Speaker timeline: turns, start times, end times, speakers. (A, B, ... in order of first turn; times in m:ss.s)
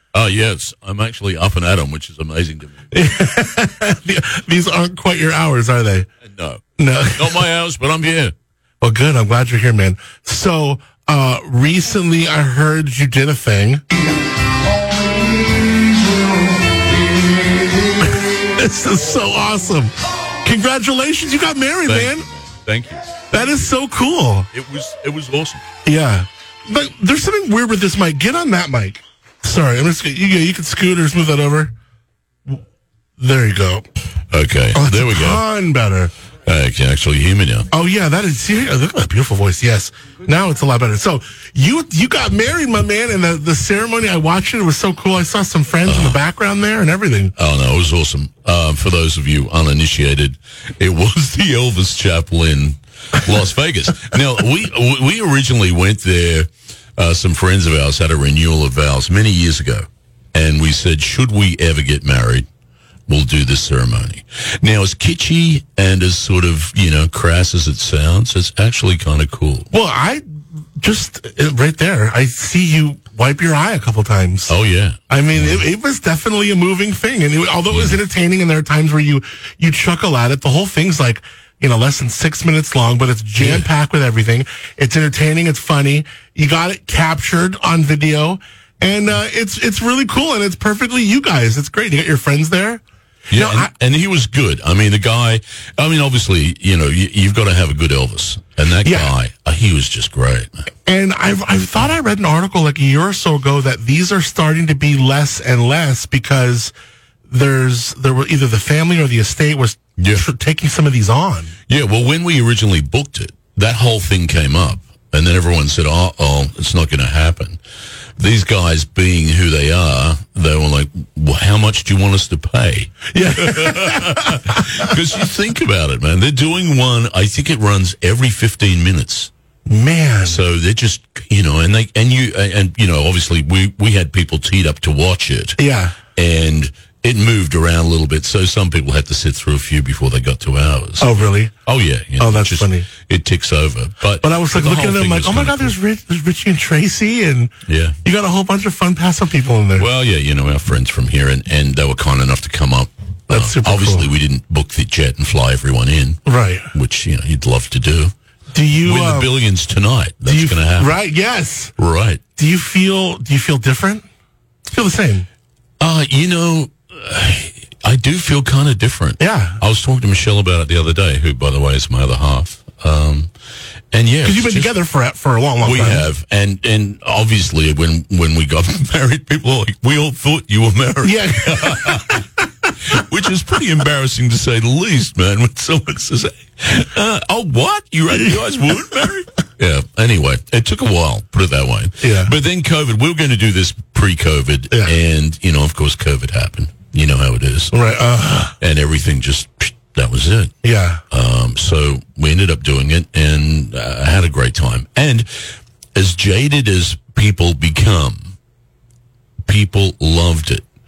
0:00.1-0:02.8 A
0:02.9-0:06.1 B
0:06.2-0:08.3 A
0:06.8-0:07.4 B
0:08.8-0:13.8 B
0:18.1-0:22.3 B
0:21.8-0:23.4 A
0:23.3-0:24.5 B
0:24.5-0:25.6 A
0:25.8-0:31.7 B
0:33.2-0:33.8 B
0:34.3-0:35.4 A
0:34.7-0:36.1 B
0:36.4-0:37.7 A
0:37.7-0:47.3 B
0:45.8-0:46.2 A
0:47.4-1:02.5 A
1:03.1-1:09.7 A
1:09.7-1:10.2 B
1:10.8-1:14.5 B
1:14.5-1:15.6 A
1:15.1-1:32.8 B
1:17.7-1:18.0 A
1:23.4-1:23.7 A
1:33.3-1:40.5 A
1:33.3-1:33.7 B
1:38.8-1:39.1 B
1:40.8-1:46.7 B
1:47.3-1:51.5 B
1:50.0-1:50.2 A
1:51.7-1:57.6 A
1:58.2-2:09.3 A
2:03.1-2:05.0 B
2:09.7-2:10.4 B
2:10.2-2:15.6 A
2:15.6-2:16.0 B
2:16.1-2:25.7 A
2:21.0-2:21.5 B
2:22.2-2:22.9 B
2:24.2-2:27.5 B
2:27.7-2:28.0 A
2:28.0-2:29.9 B
2:29.8-2:36.2 A
2:33.3-2:34.0 B
2:36.2-2:36.7 B
2:36.7-2:38.1 A
2:38.5-2:39.3 B
2:38.8-2:40.9 A
2:40.2-2:41.7 B
2:41.8-2:42.2 A
2:42.4-2:44.0 B
2:44.7-2:45.2 B
2:45.8-2:53.3 A
2:49.2-2:49.6 B
2:53.9-2:54.7 A
2:54.2-2:56.0 B
2:55.6-3:02.2 A
3:01.0-3:02.4 B
3:02.8-3:17.7 A
3:12.0-3:12.3 B
3:17.7-3:18.5 B
3:18.6-3:20.5 A
3:20.6-3:21.0 B
3:21.1-3:28.3 A
3:29.4-3:30.6 A